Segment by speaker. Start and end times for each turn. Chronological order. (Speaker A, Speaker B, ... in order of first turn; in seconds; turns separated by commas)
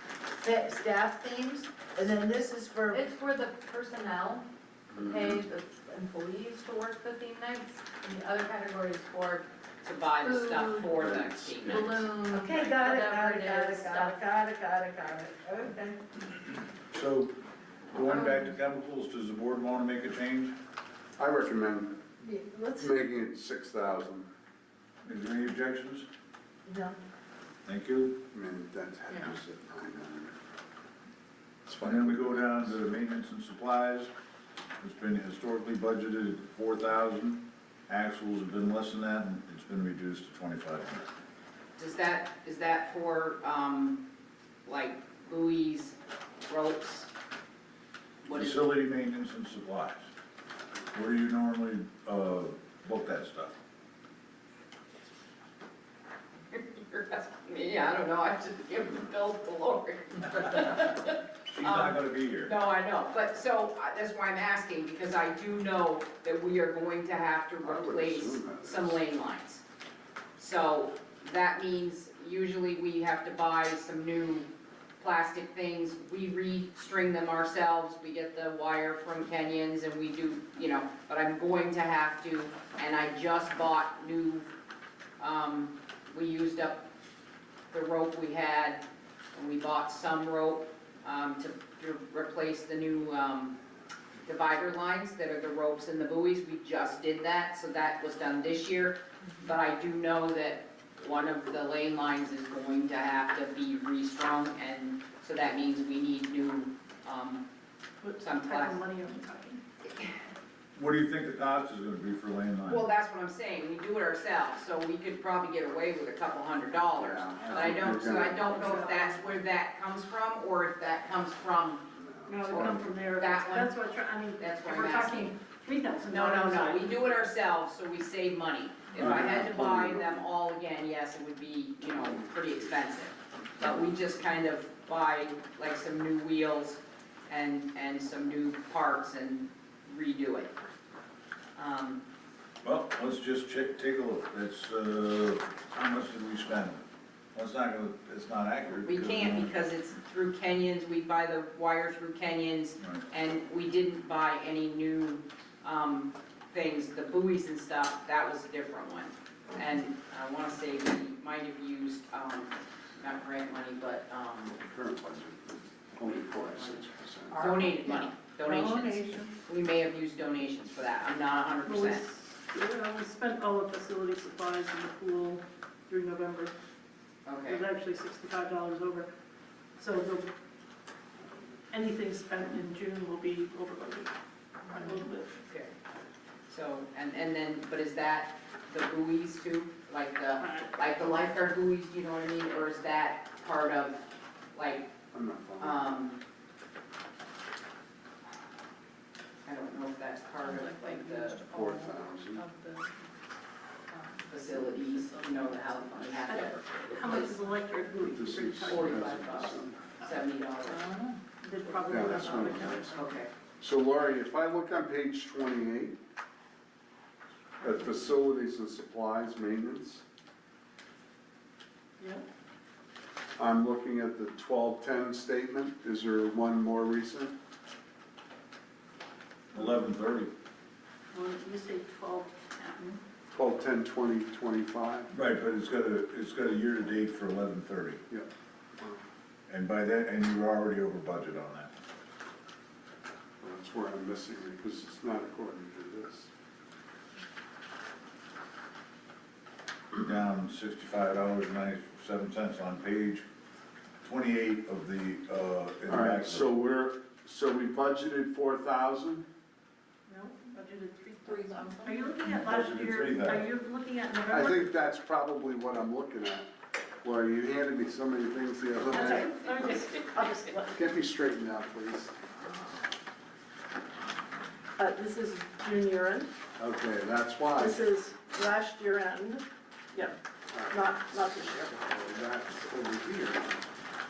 Speaker A: 0.4-3.1, Speaker B: 2.9-9.4, Speaker C: 5.0-5.4, Speaker D: 9.8-12.0, Speaker B: 10.2-10.9, Speaker C: 10.9-12.0, Speaker B: 11.6-14.2, Speaker A: 12.3-16.0, Speaker E: 16.9-17.3, Speaker E: 17.9-20.5, Speaker B: 18.1-18.4, Speaker C: 21.2-21.9, Speaker A: 22.2-22.9, Speaker C: 22.6-24.3, Speaker E: 25.0-26.1, Speaker A: 26.6-26.9, Speaker E: 27.6-28.2, Speaker C: 28.3-30.3, Speaker C: 31.6-32.7, Speaker E: 31.8-34.1, Speaker E: 34.8-41.0, Speaker D: 41.8-44.0, Speaker D: 44.6-46.0, Speaker D: 46.5-47.1, Speaker D: 48.2-48.7, Speaker E: 48.3-50.1, Speaker E: 50.9-53.5, Speaker D: 56.5-69.6, Speaker E: 61.5-62.5, Speaker C: 67.6-69.0, Speaker D: 70.4-74.5, Speaker D: 75.0-84.5, Speaker D: 85.2-86.8, Speaker D: 87.7-88.8, Speaker D: 89.3-93.6, Speaker D: 94.2-107.5, Speaker F: 108.0-109.6, Speaker D: 108.2-108.8, Speaker E: 110.8-112.8, Speaker D: 112.7-121.8, Speaker C: 117.0-118.6, Speaker F: 117.4-117.8, Speaker F: 118.5-119.2, Speaker C: 121.9-123.1, Speaker F: 122.2-127.0, Speaker D: 122.5-123.7, Speaker D: 124.4-125.3, Speaker D: 126.1-140.5, Speaker C: 128.9-130.2, Speaker D: 141.6-142.0, Speaker E: 142.6-146.8, Speaker E: 147.3-149.5, Speaker D: 148.8-164.6, Speaker C: 164.6-167.8, Speaker D: 166.0-172.1, Speaker B: 168.6-169.1, Speaker F: 171.6-176.5, Speaker D: 177.2-177.6, Speaker F: 177.4-179.1, Speaker F: 179.8-180.3, Speaker F: 181.7-184.1, Speaker F: 184.7-185.3, Speaker D: 185.5-185.7, Speaker D: 186.5-194.9, Speaker F: 190.4-190.7, Speaker C: 195.1-195.9, Speaker D: 195.6-196.2, Speaker D: 199.4-201.4, Speaker B: 200.4-202.8, Speaker C: 201.4-202.5, Speaker B: 203.9-206.2, Speaker D: 204.3-207.5, Speaker F: 206.2-210.2, Speaker C: 208.0-209.9, Speaker D: 208.7-210.8, Speaker B: 210.7-211.1, Speaker F: 211.4-213.2, Speaker C: 211.9-212.9, Speaker D: 212.9-213.3, Speaker C: 213.6-216.0, Speaker C: 217.6-220.0, Speaker F: 222.0-222.2, Speaker C: 223.4-227.3, Speaker E: 229.5-230.3, Speaker F: 229.5-229.9, Speaker F: 231.1-233.0, Speaker C: 233.3-235.1, Speaker E: 235.1-238.0, Speaker C: 238.1-239.0, Speaker E: 239.5-241.7, Speaker C: 243.4-246.3, Speaker E: 250.0-253.2, Speaker E: 254.0-256.5, Speaker C: 255.9-259.2, Speaker F: 260.1-264.7, Speaker B: 261.2-262.1, Speaker E: 262.2-263.5, Speaker C: 264.3-266.5, Speaker C: 267.0-269.4, Speaker F: 268.9-270.9, Speaker C: 270.7-272.1, Speaker F: 274.8-276.3, Speaker C: 276.6-277.8, Speaker F: 277.6-280.2, Speaker C: 280.5-280.9, Speaker F: 280.7-281.8, Speaker C: 281.8-283.6